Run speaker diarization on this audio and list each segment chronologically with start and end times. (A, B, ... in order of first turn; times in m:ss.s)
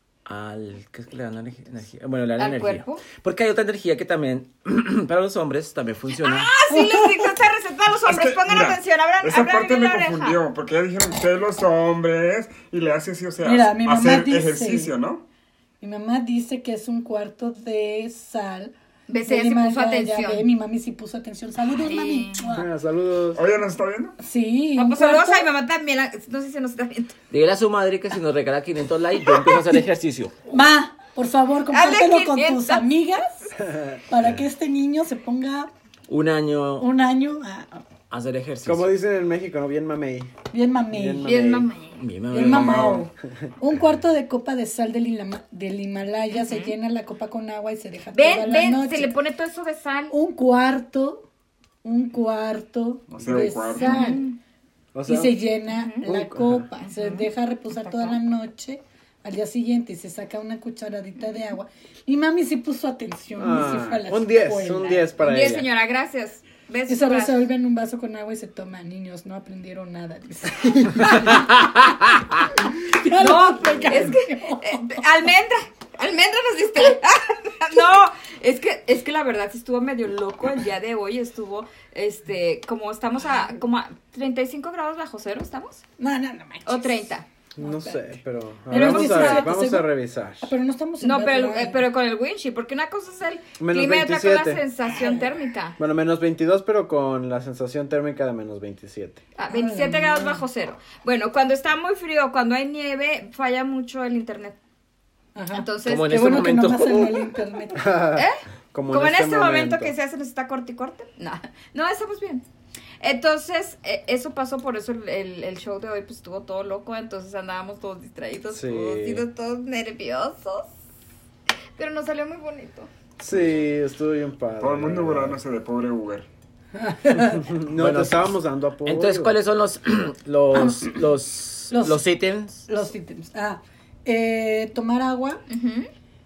0:00.3-0:06.5 A
0:02.4-0:03.0 B
0:06.2-0:10.4 B
0:06.7-0:07.4 C
0:08.0-0:15.2 D
0:13.4-0:14.9 C
0:15.8-0:18.7 C
0:19.1-0:20.5 B
0:19.2-0:22.7 C
0:21.8-0:22.4 B
0:22.4-0:23.4 E
0:23.4-0:24.2 D
0:24.2-0:25.5 C
0:24.8-0:27.1 B
0:27.3-0:30.3 A
0:30.5-0:33.5 C
0:31.7-0:32.9 B
0:33.7-0:34.0 E
0:34.1-0:35.7 C
0:36.1-0:36.9 A
0:36.8-0:37.8 C
0:38.1-0:38.9 A
0:38.6-0:40.3 E
0:40.5-0:41.3 C
0:40.9-0:41.7 E
0:41.2-0:42.0 B
0:42.0-0:43.0 A
0:42.3-0:49.1 C
0:42.3-0:43.1 D
0:46.4-0:46.8 B
0:48.1-0:50.1 B
0:50.1-0:51.3 C
0:51.8-0:54.2 C
0:53.1-0:54.2 D
0:53.5-0:54.4 B
0:54.9-0:55.4 E
0:55.1-1:05.1 C
0:55.7-0:56.0 B
0:56.0-0:56.7 E
0:56.8-0:58.2 B
1:03.4-1:05.7 E
1:05.2-1:07.5 B
1:06.9-1:11.5 C
1:11.6-1:12.3 A
1:12.5-1:15.0 C
1:13.1-1:25.8 B
1:26.0-1:27.1 C
1:26.7-1:27.2 B
1:27.6-1:30.5 E
1:27.6-1:28.2 C
1:28.7-1:29.9 C
1:28.7-1:29.6 B
1:30.4-1:31.8 C
1:31.0-1:35.8 B
1:33.6-1:34.6 E
1:35.8-1:39.2 E
1:39.4-1:44.6 B
1:39.5-1:40.5 C
1:45.4-1:47.9 C
1:45.5-1:46.5 B
1:45.8-1:47.1 A
1:47.8-1:49.9 E
1:48.9-1:52.4 B
1:53.0-2:00.7 B
1:58.5-1:59.2 E
2:01.8-2:02.9 B
2:03.2-2:05.4 E
2:04.6-2:06.3 D
2:06.8-2:07.5 C
2:07.2-2:09.4 E
2:07.8-2:08.3 A
2:08.8-2:12.7 A
2:10.6-2:10.9 C
2:11.7-2:12.0 C
2:12.7-2:15.4 C
2:15.5-2:15.9 B